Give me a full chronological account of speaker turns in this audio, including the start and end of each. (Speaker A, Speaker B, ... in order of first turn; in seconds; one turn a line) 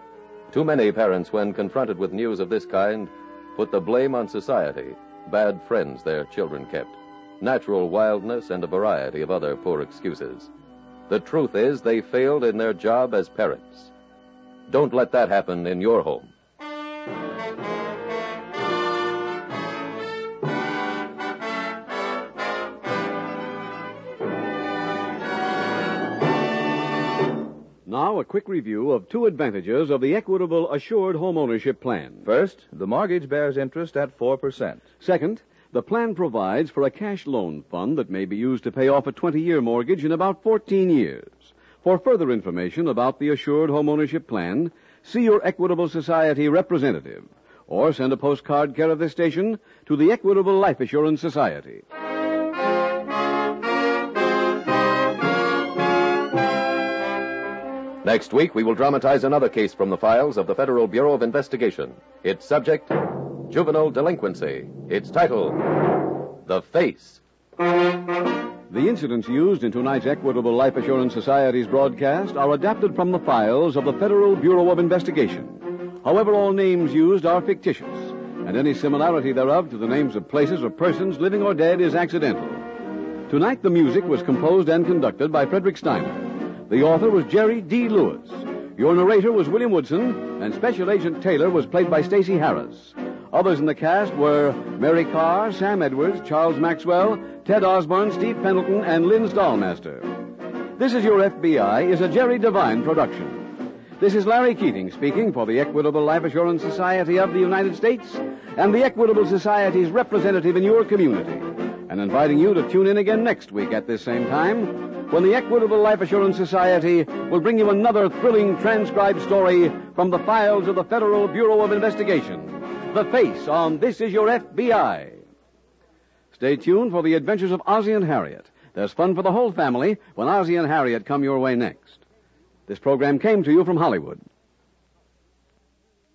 Speaker A: 0.5-10.5
Speaker A: 11.1-13.9
Speaker A: 14.7-16.3
Speaker B: 27.9-32.2
Speaker C: 32.2-34.8
Speaker B: 35.0-51.8
Speaker A: 58.0-65.7
Speaker A: 66.4-67.2
Speaker B: 68.7-82.6
Speaker B: 83.3-100.1
Speaker B: 100.8-103.5
Speaker B: 104.0-125.2
Speaker B: 126.3-132.0
Speaker B: 132.7-134.2